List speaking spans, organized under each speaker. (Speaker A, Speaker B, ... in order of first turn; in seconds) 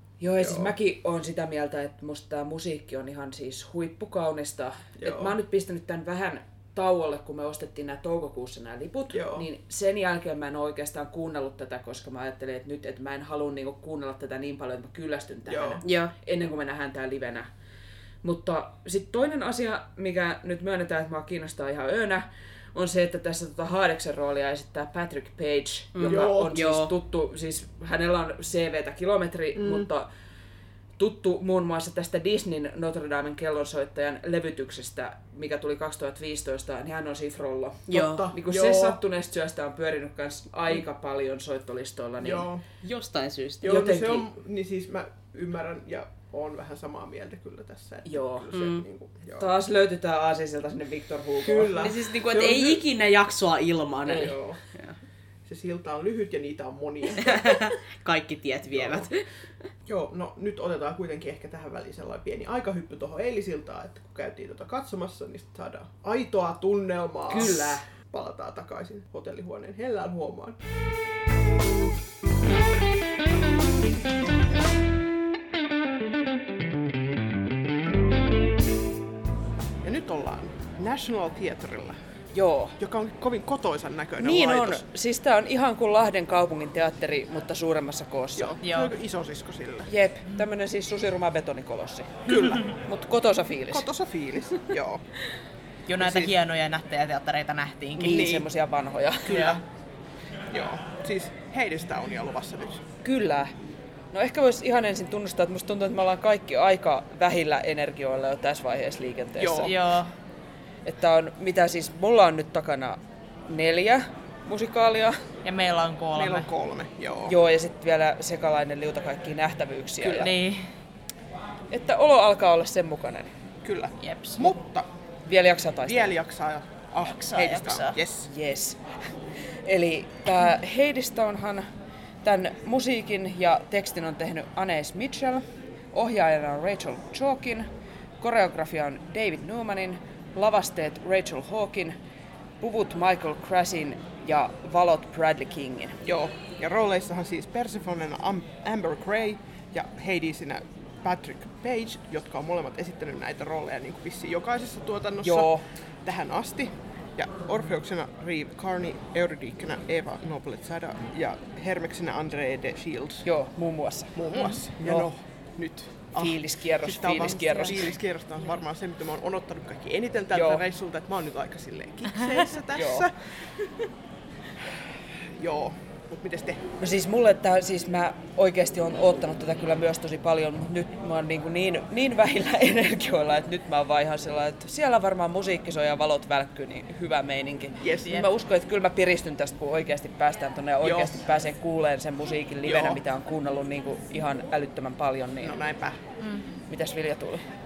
Speaker A: 0.2-17.5, 18.2-30.1, 31.0-42.5, 43.6-44.3, 48.0-48.5, 49.4-51.8, 67.3-67.9, 82.3-82.8, 84.2-88.6, 89.9-93.9, 98.0-99.4, 103.0-103.5, 104.1-109.7, 110.8-115.2, 117.3-120.3, 121.7-123.3, 125.3-126.2, 128.3-128.8, 129.6-131.7, 132.2-137.7, 138.2-142.0, 142.6-146.0, 155.2-155.7, 163.2-164.2, 164.7-165.1, 166.2-167.9, 170.3-170.6, 172.7-173.1, 176.8-195.6, 196.7-197.4
Speaker B: 0.4-0.7, 5.0-5.3, 9.1-9.4, 15.5-15.8, 26.0-26.5, 29.6-29.9, 37.9-39.0, 42.2-42.6, 43.6-49.5, 51.4-52.9, 54.1-54.6, 55.5-57.7, 58.7-59.1, 59.9-70.6, 79.8-82.0, 82.8-84.8, 88.4-89.9, 92.3-92.7, 93.7-95.0, 96.0-96.4, 98.0-98.5, 99.3-99.6, 100.5-102.8, 109.4-109.7, 116.1-117.3, 123.6-124.9, 125.8-128.3, 146.1-163.3, 164.1-173.9, 175.2-176.7, 187.8-188.2, 190.8-191.2, 192.7-193.0, 195.4-196.0
Speaker C: 15.8-16.1, 25.9-26.9, 37.9-38.3, 42.8-43.8, 48.5-48.9, 51.8-54.9, 57.2-59.2, 88.6-88.9, 95.9-98.3, 99.3-99.6, 109.6-110.1, 115.4-116.5, 120.0-120.6, 124.0-124.5, 127.0-128.0, 196.2-196.5